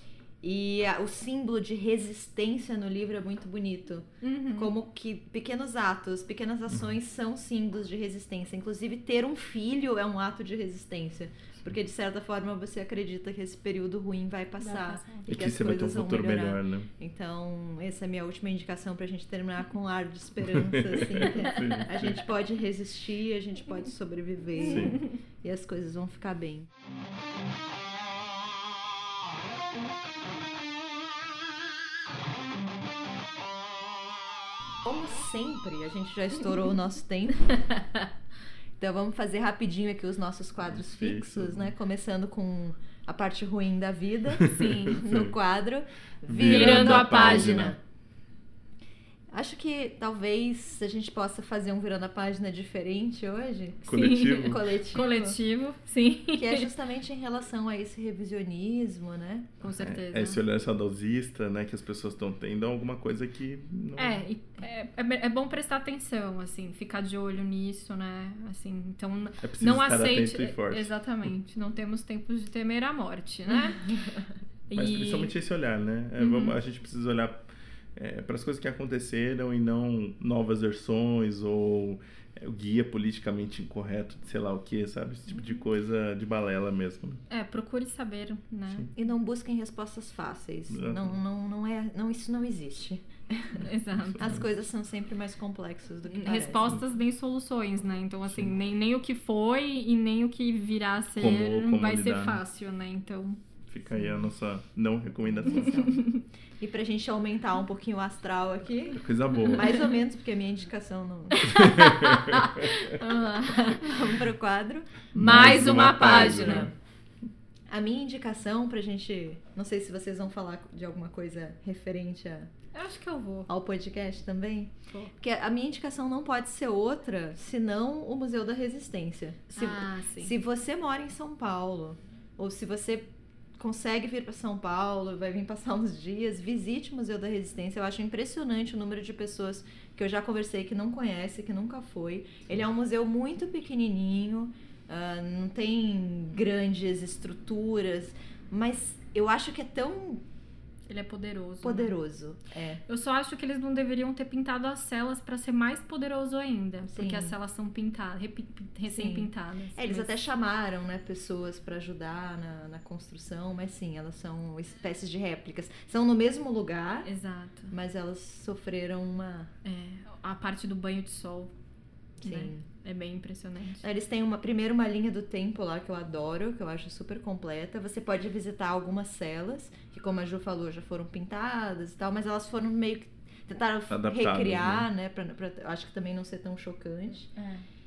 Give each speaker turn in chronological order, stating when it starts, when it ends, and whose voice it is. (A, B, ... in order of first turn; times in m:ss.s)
0:00.4-0:26.7 A
0:04.2-0:04.7 B
0:14.6-0:15.3 B
0:15.3-0:16.9 C
0:20.4-0:22.2 C
0:24.6-0:25.0 C
0:34.8-0:37.6 A
0:38.8-0:47.8 A
0:40.7-0:41.7 C
0:44.4-0:45.4 C
0:44.6-0:44.8 B
0:46.2-0:47.7 C
0:46.4-0:47.7 B
0:49.3-0:55.4 A
0:53.8-0:54.6 C
0:53.9-0:56.7 B
0:56.3-0:59.6 A
0:59.6-1:00.4 B
0:59.7-1:04.2 C
1:04.0-1:13.9 B
1:09.4-1:10.9 C
1:14.7-1:15.3 B
1:14.8-1:17.4 C
1:16.2-1:16.6 B
1:18.0-1:27.2 C
1:27.3-1:28.9 B
1:28.9-1:33.7 A
1:30.7-1:31.2 C
1:33.6-1:34.4 B
1:34.0-1:34.4 C
1:34.2-1:36.8 A
1:36.1-1:43.4 B
1:38.3-1:38.5 C
1:41.2-1:42.4 C
1:43.7-1:45.9 C
1:45.3-1:51.8 A
1:45.7-1:46.2 B
1:48.9-1:49.7 C
1:51.3-1:54.1 B
1:51.5-1:52.9 C
1:53.4-1:56.7 A
1:55.1-1:56.7 B
1:55.1-1:56.7 C
1:57.7-2:02.5 A
2:02.7-2:03.5 B
2:03.5-2:30.2 A
2:09.5-2:10.3 B
2:30.9-2:31.9 B
2:31.6-2:32.8 A
2:32.9-2:40.2 B
2:36.9-2:37.3 A
2:38.9-2:47.1 A
2:47.0-2:47.7 B
2:47.7-2:49.5 A
2:49.6-2:51.5 B
2:52.2-2:52.6 A
2:52.2-2:53.8 B
2:53.8-3:07.5 A
3:03.9-3:04.9 C